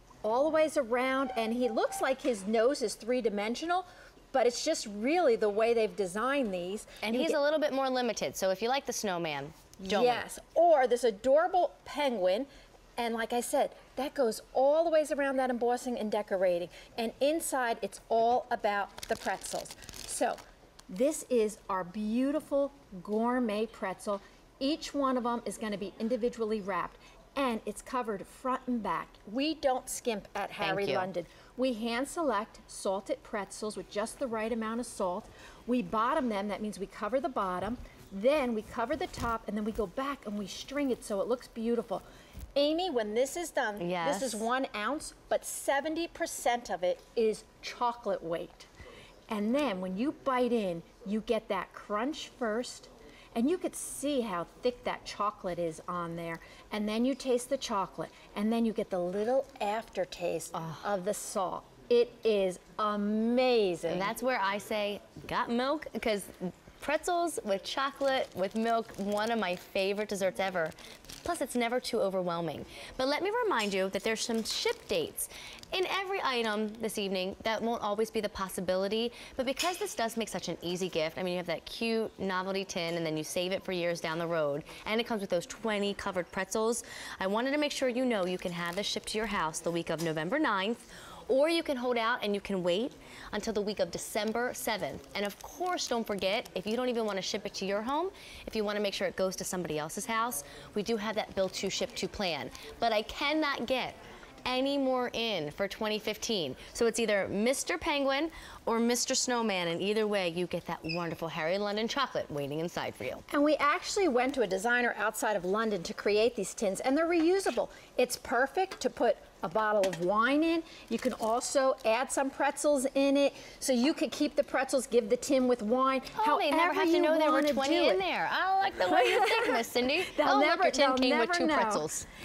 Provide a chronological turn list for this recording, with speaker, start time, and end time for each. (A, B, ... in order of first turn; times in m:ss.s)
0:00.2-0:07.4 A
0:07.0-0:10.2 B
0:09.8-0:42.0 A
0:30.6-0:31.1 B
0:42.6-0:48.7 A
0:43.8-0:44.5 B
0:49.3-1:04.1 A
1:00.6-1:00.8 B
1:03.9-1:53.2 B
1:53.3-2:08.0 A
2:06.1-2:12.1 B
2:08.8-2:11.9 A